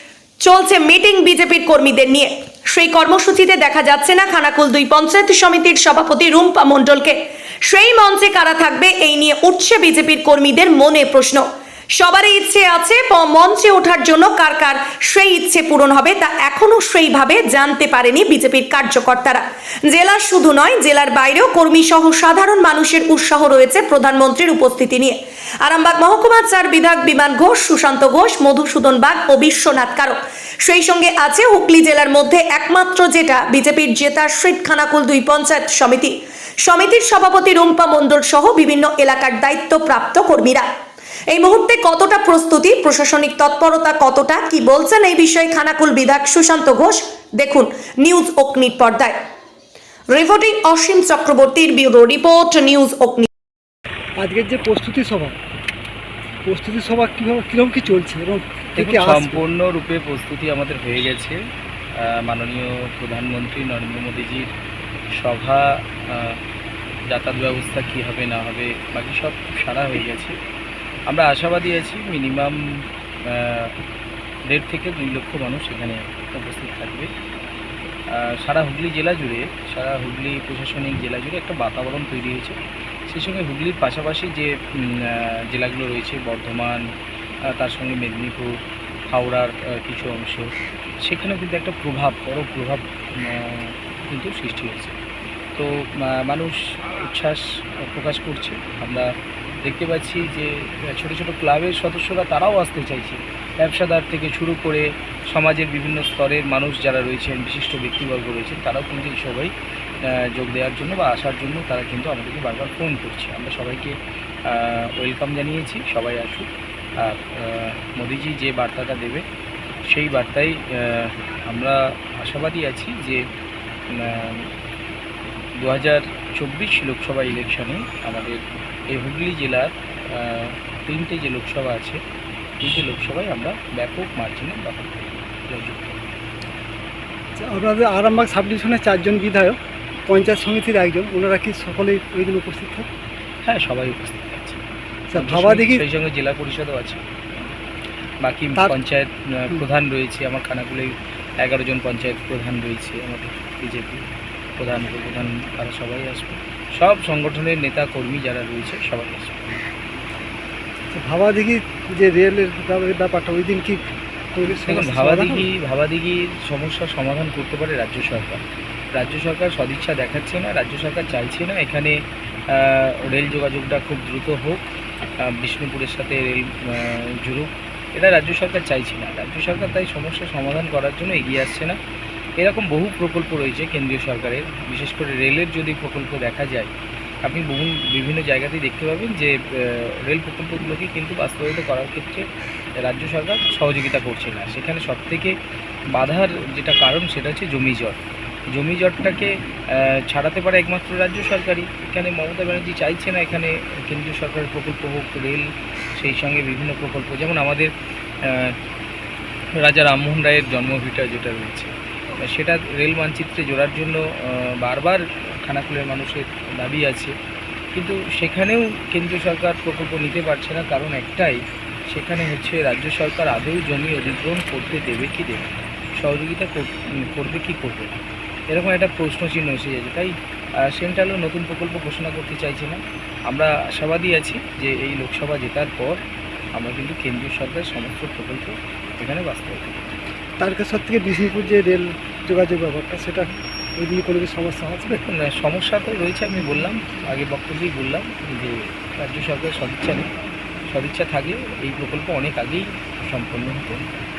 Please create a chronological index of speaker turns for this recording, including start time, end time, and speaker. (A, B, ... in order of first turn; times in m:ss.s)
0:00.4-0:11.4 A
0:12.0-0:40.6 A
0:41.3-0:49.2 A
0:50.1-0:53.3 A
0:54.2-0:55.4 B
0:56.4-0:59.4 B
0:58.8-1:01.4 C
1:02.0-1:04.5 C
1:05.2-1:06.4 C
1:07.1-1:10.4 C
1:11.1-1:12.6 C
1:13.3-1:13.7 C
1:14.5-1:17.1 C
1:18.1-1:26.8 C
1:27.6-1:28.6 C
1:29.1-1:35.0 C
1:35.6-1:39.1 C
1:39.6-1:49.5 C
1:50.1-1:56.5 C
1:57.0-1:59.2 C
1:59.9-2:03.2 C
2:03.9-2:04.5 C
2:05.6-2:08.4 C
2:08.9-2:12.0 C
2:12.6-2:16.0 C
2:17.4-2:22.9 B
2:23.4-2:24.6 C
2:25.1-2:25.8 B
2:25.2-2:27.0 C
2:28.2-2:34.0 C
2:34.6-2:39.6 C
2:40.9-2:43.8 B
2:44.3-2:45.5 B
2:44.7-2:52.0 C
2:52.5-2:54.6 C
2:55.2-3:01.8 C
3:02.4-3:06.7 C
3:07.2-3:12.3 C
3:12.8-3:15.4 C
3:15.9-3:18.0 C
3:18.5-3:27.7 C
3:28.2-3:28.6 C
3:29.6-3:37.1 C
3:37.7-3:47.9 C
3:48.5-3:50.1 C
3:50.7-3:56.0 C
3:56.5-3:59.8 C
4:00.4-4:05.0 B
4:05.0-4:10.1 C
4:10.7-4:13.8 C